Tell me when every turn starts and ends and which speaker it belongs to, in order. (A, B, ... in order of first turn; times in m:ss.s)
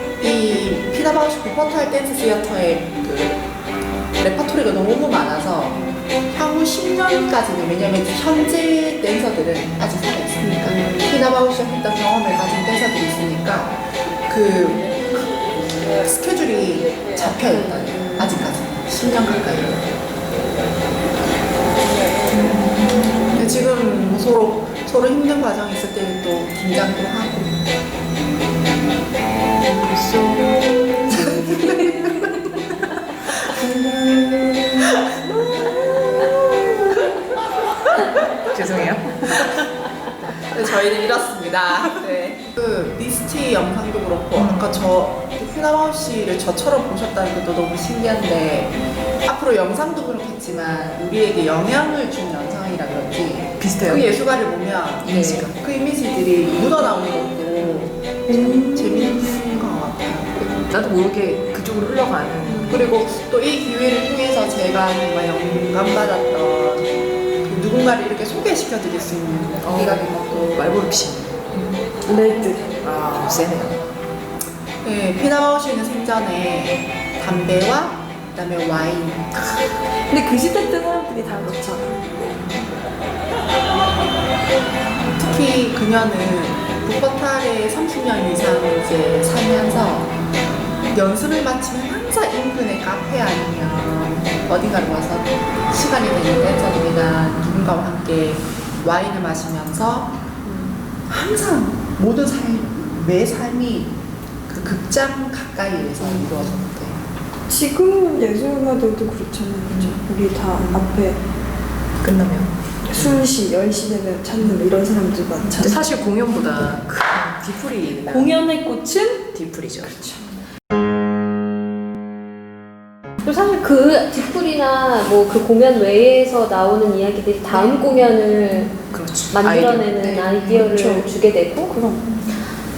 0:00.2-0:03.5 A
0:04.2-0:19.9 A
0:22.3-0:23.4 B
0:23.3-0:27.6 A
0:29.7-0:30.9 B
0:31.1-0:32.4 C
0:33.6-0:36.4 C
0:38.5-0:39.7 B
0:40.4-1:00.6 A
0:44.3-0:44.9 B
0:53.6-0:54.0 B
0:55.0-0:55.6 B
0:58.3-0:59.4 C
1:00.7-1:02.9 B
1:02.5-1:02.8 C
1:02.7-1:06.9 A
1:07.4-1:10.7 A
1:09.6-1:11.8 B
1:12.0-1:12.7 C
1:12.7-1:13.9 B
1:14.8-1:19.5 A
1:20.0-1:22.4 C
1:25.0-1:30.2 A
1:30.8-1:40.1 A
1:40.5-1:40.7 D
1:41.1-1:43.9 A
1:44.5-1:47.0 A
1:46.0-1:46.4 C
1:47.5-1:51.2 C
1:49.7-1:50.0 B
1:50.6-1:51.0 B
1:52.0-1:53.3 B
1:52.9-1:55.9 C
1:54.4-1:54.7 B
1:55.4-1:58.4 B
1:58.0-2:00.3 C
1:59.3-2:00.2 B
2:03.2-2:08.8 D
2:07.5-2:07.8 B
2:08.9-2:10.0 B
2:09.3-2:11.7 D
2:10.0-2:10.6 A
2:10.5-2:11.1 C
2:11.6-2:12.0 C
2:12.0-2:12.4 A